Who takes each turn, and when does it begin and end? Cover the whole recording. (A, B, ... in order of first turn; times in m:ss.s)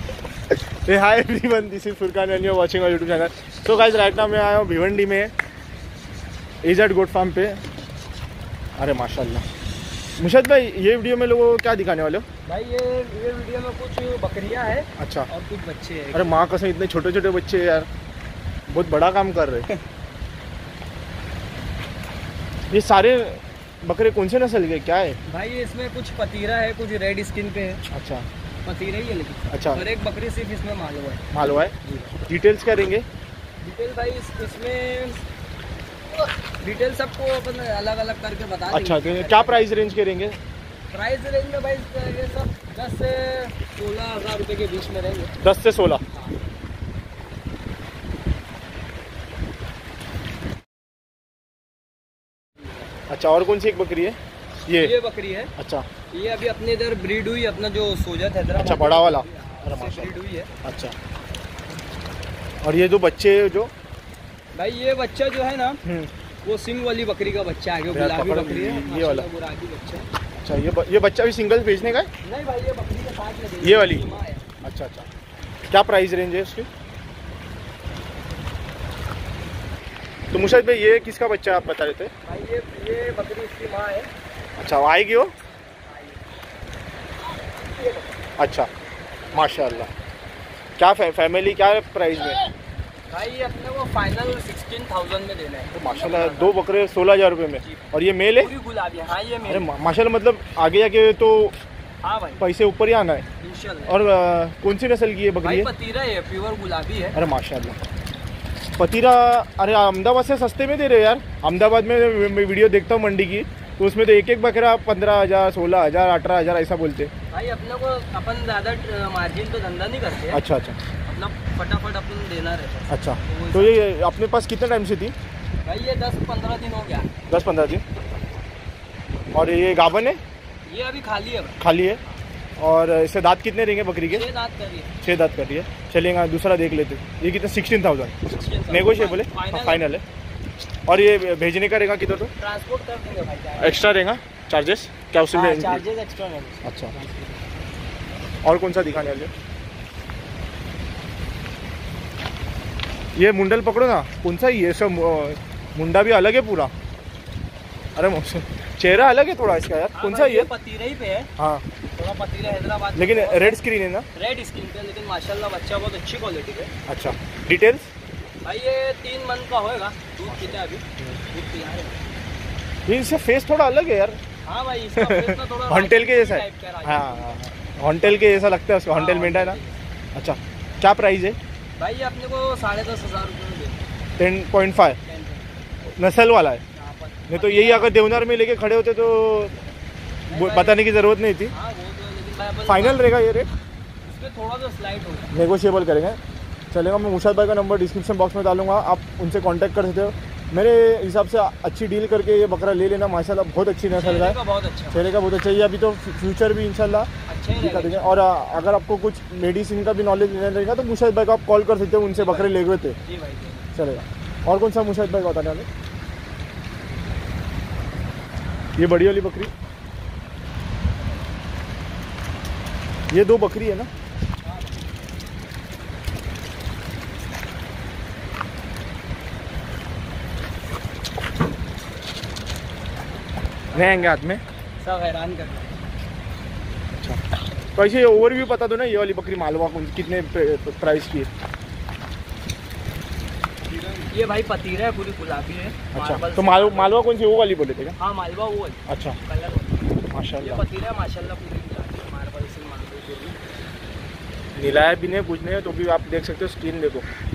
0:00.5-0:05.3 A
0:06.6-0:07.6 A
0:08.8-0:09.4 A
0:10.2-0:12.2 A
0:12.4-0:16.4 B
0:15.0-0:15.3 A
0:16.1-0:17.9 A
0:18.7-0:19.7 A
0:22.7-0:25.2 A
0:25.2-0:27.8 B
0:27.9-0:28.2 A
0:28.6-0:31.2 B
0:29.5-0:29.8 A
0:31.3-0:33.0 A
0:33.6-0:35.2 B
0:36.6-0:39.8 B
0:38.7-0:40.4 A
0:40.9-0:45.4 B
0:45.4-0:46.0 A
0:53.1-0:54.9 A
0:54.7-0:55.5 B
0:55.6-0:55.8 A
0:56.1-1:00.5 B
0:58.5-1:00.9 A
1:02.6-1:03.7 A
1:04.5-1:05.8 B
1:05.8-1:06.1 A
1:06.4-1:10.1 B
1:07.9-1:09.2 A
1:10.4-1:12.1 A
1:12.2-1:14.4 B
1:13.6-1:14.0 A
1:14.6-1:15.1 A
1:15.7-1:16.7 A
1:20.3-1:22.1 A
1:22.2-1:24.1 B
1:24.6-1:25.3 A
1:25.9-1:26.2 B
1:27.7-1:28.1 B
1:28.4-1:28.7 A
1:29.3-1:29.9 A
1:29.3-1:29.9 B
1:30.8-1:32.4 A
1:33.1-1:36.6 B
1:35.7-1:38.5 A
1:37.6-1:39.7 B
1:39.4-1:41.5 A
1:42.0-1:42.4 B
1:42.4-1:43.2 A
1:43.4-1:44.0 B
1:43.8-1:45.7 A
1:45.4-1:47.2 B
1:47.1-1:47.8 A
1:48.8-1:57.1 A
1:57.3-2:00.4 B
2:00.3-2:00.8 A
2:01.0-2:03.8 B
2:02.9-2:05.1 A
2:05.6-2:07.1 B
2:07.3-2:07.8 A
2:09.3-2:10.2 A
2:10.6-2:11.6 B
2:11.6-2:12.0 A
2:12.6-2:14.3 A
2:14.1-2:14.9 B
2:15.0-2:20.0 A
2:18.2-2:19.9 B
2:20.9-2:22.3 A
2:22.4-2:23.9 B
2:23.6-2:25.8 A
2:25.3-2:27.4 B
2:26.6-2:26.9 A
2:28.4-2:29.3 A
2:33.1-2:36.7 A
2:38.0-2:40.5 A
2:39.9-2:41.3 B
2:41.4-2:41.6 A
2:42.0-2:43.6 B
2:43.0-2:44.0 A
2:44.1-2:46.7 B
2:46.9-2:47.9 A
2:48.4-2:52.0 B
2:50.3-2:51.2 A
2:52.9-2:54.2 A
2:54.4-2:57.4 B
2:55.0-2:59.6 A
2:58.0-2:59.8 B
3:00.1-3:01.4 A
3:01.8-3:03.8 B
3:04.2-3:05.0 A
3:05.0-3:05.5 B
3:06.0-3:06.6 A
3:06.7-3:07.9 B
3:07.3-3:09.6 A
3:10.3-3:10.8 B
3:10.3-3:11.5 A
3:11.5-3:13.0 B
3:12.6-3:13.5 A
3:14.0-3:15.3 B
3:15.3-3:16.2 A
3:16.7-3:24.4 A
3:23.9-3:25.1 B
3:24.9-3:33.0 A
3:27.3-3:28.1 B
3:32.1-3:33.7 B
3:33.7-3:35.7 A
3:38.8-3:39.5 A
3:43.1-3:43.9 A
3:44.4-3:44.8 B
3:53.7-3:54.2 B
3:53.7-3:54.4 A
3:54.8-3:55.8 B
3:57.8-4:01.3 A
4:03.8-4:07.0 B
4:05.9-4:08.0 A
4:08.0-4:13.4 B
4:08.9-4:09.2 A
4:10.1-4:10.6 A
4:14.6-4:17.0 A